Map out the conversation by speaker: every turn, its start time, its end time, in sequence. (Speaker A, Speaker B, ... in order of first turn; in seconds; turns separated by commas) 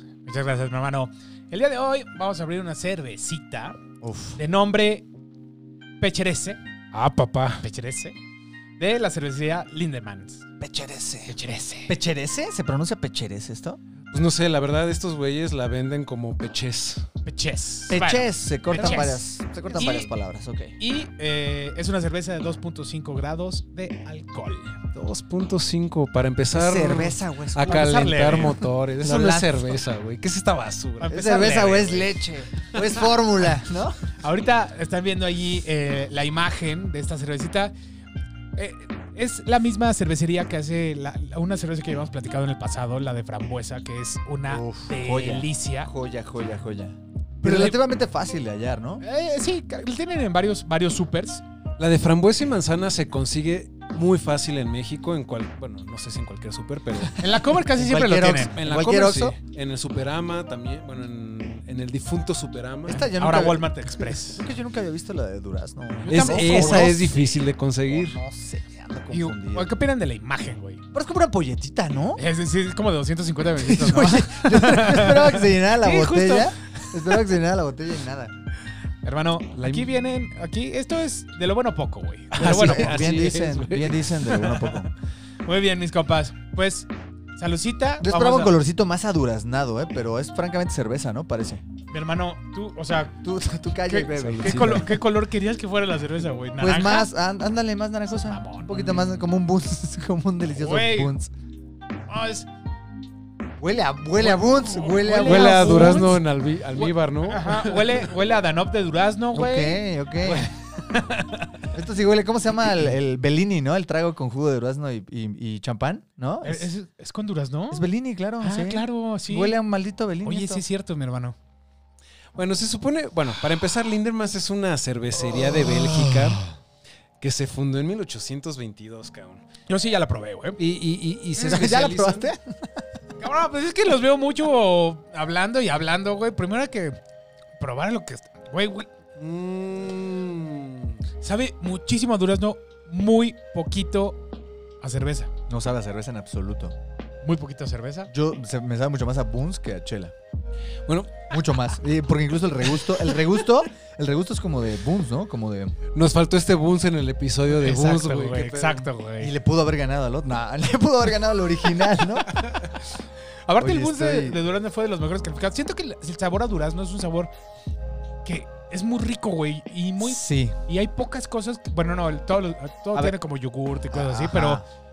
Speaker A: 0.2-3.8, Speaker B: 4.0-4.4, Speaker A: 4.4-5.1, Speaker A: 6.0-6.6, Speaker C: 6.9-7.6, Speaker A: 7.6-8.2, Speaker A: 8.8-10.4, Speaker B: 10.6-11.3, Speaker A: 11.3-11.9, Speaker B: 11.9-13.8, Speaker C: 14.1-17.1, Speaker A: 17.2-20.1, Speaker B: 17.9-20.8, Speaker C: 18.7-19.1, Speaker A: 20.8-24.8, Speaker C: 24.9-31.2, Speaker B: 26.5-29.8, Speaker A: 27.7-28.6, Speaker A: 31.0-32.1, Speaker B: 31.1-34.0, Speaker A: 34.2-37.7, Speaker A: 38.5-45.9, Speaker B: 44.5-49.0, Speaker A: 47.4-47.8, Speaker A: 49.0-51.4, Speaker C: 51.8-57.2, Speaker A: 57.2-58.6, Speaker B: 57.8-59.4, Speaker C: 58.5-63.1, Speaker B: 62.9-67.3, Speaker A: 63.1-64.5, Speaker A: 66.0-67.0, Speaker C: 66.1-68.2, Speaker B: 67.9-69.7, Speaker A: 69.1-70.8, Speaker B: 70.9-72.2, Speaker A: 72.2-76.5, Speaker B: 73.6-78.3, Speaker A: 79.0-83.3, Speaker C: 79.5-80.0, Speaker C: 82.3-84.5, Speaker B: 82.4-84.9, Speaker A: 84.4-84.8, Speaker A: 85.5-88.6, Speaker B: 88.0-91.6, Speaker A: 91.9-93.2, Speaker B: 93.2-95.0, Speaker A: 93.9-97.1, Speaker C: 94.3-94.9, Speaker B: 96.6-101.3, Speaker A: 98.2-99.1, Speaker A: 100.5-101.2, Speaker A: 102.1-102.5, Speaker B: 103.6-106.2, Speaker A: 104.2-111.5, Speaker C: 105.2-108.0, Speaker B: 109.3-110.5, Speaker B: 111.7-116.7, Speaker A: 116.4-119.6, Speaker B: 117.7-120.6, Speaker A: 120.2-121.4, Speaker C: 122.3-126.5, Speaker B: 125.4-126.5, Speaker C: 127.2-129.4, Speaker A: 129.7-130.6, Speaker C: 130.6-132.2, Speaker A: 131.4-131.9, Speaker B: 131.4-132.7, Speaker A: 133.2-137.0, Speaker A: 137.6-138.9, Speaker C: 139.2-140.9, Speaker A: 141.2-144.2, Speaker A: 144.8-145.3, Speaker B: 145.5-146.8, Speaker A: 147.2-148.1, Speaker B: 148.1-150.1, Speaker C: 150.8-151.2, Speaker B: 151.3-155.8, Speaker C: 155.9-158.5, Speaker A: 157.5-159.3, Speaker B: 158.3-162.3, Speaker A: 163.5-167.3, Speaker B: 163.6-164.4, Speaker A: 168.2-174.6, Speaker B: 170.0-170.6, Speaker B: 173.9-174.6